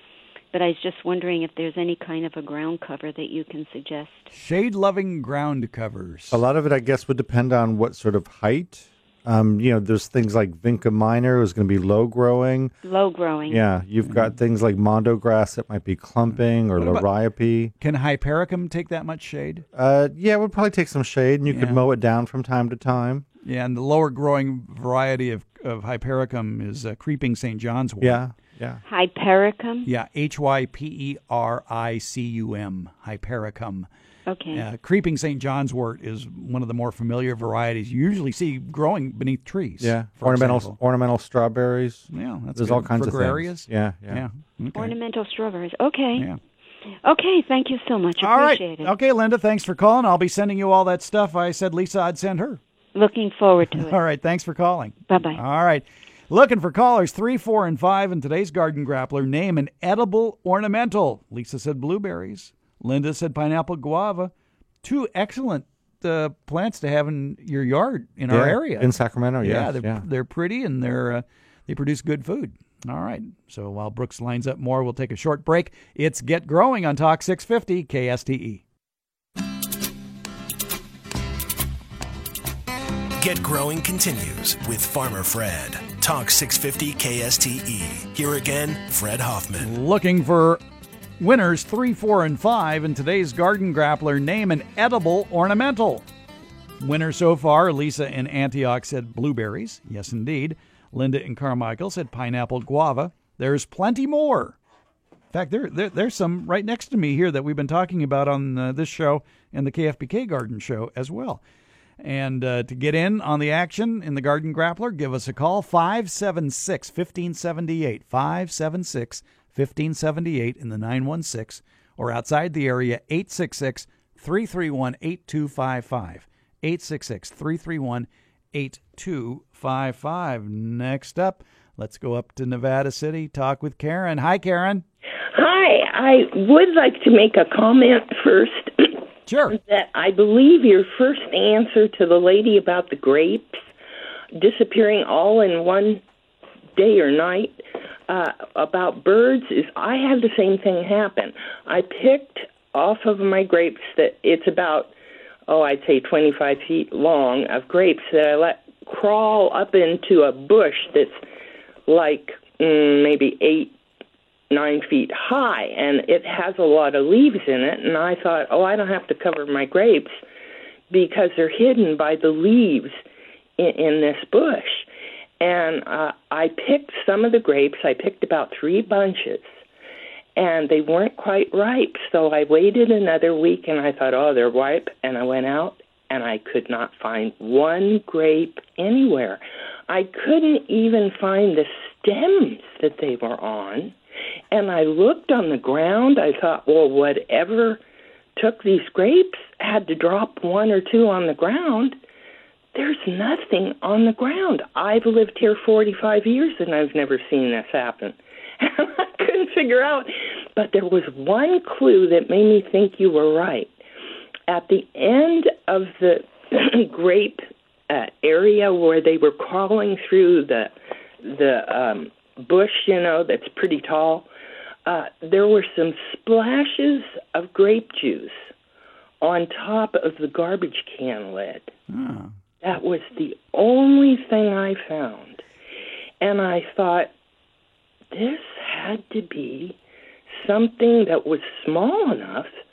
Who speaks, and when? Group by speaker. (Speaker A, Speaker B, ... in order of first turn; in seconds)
Speaker A: 0.5-4.3, 12.8-13.7, 28.8-29.9, 34.3-34.6, 44.7-46.3, 47.0-48.9, 52.9-54.0, 55.1-55.4
Speaker B: 4.3-6.4, 14.0-14.3, 16.8-17.1, 17.8-19.6, 21.5-21.8, 23.4-28.2, 29.8-33.9, 34.5-40.8, 42.1-44.9, 48.2-52.6, 53.8-64.3, 64.8-78.6, 89.6-90.6, 91.2-96.0, 96.8-104.6, 105.3-111.4, 112.0-134.8, 139.3-139.6, 231.9-232.3
Speaker C: 6.3-12.7, 13.5-17.7, 19.7-23.2, 28.0-28.8, 39.8-44.2, 68.3-70.0
Speaker D: 83.2-89.7
Speaker E: 135.3-143.6, 144.4-146.0, 146.8-154.9, 155.5-161.2, 161.9-163.7, 164.5-170.1, 170.9-172.9, 173.6-174.9, 175.4-179.5, 180.3-193.9, 194.5-197.8, 198.4-202.0, 202.7-213.7, 214.5-224.3, 224.8-228.5, 229.2-231.7, 232.6-235.4, 236.2-237.1, 238.1-239.8, 240.3-242.5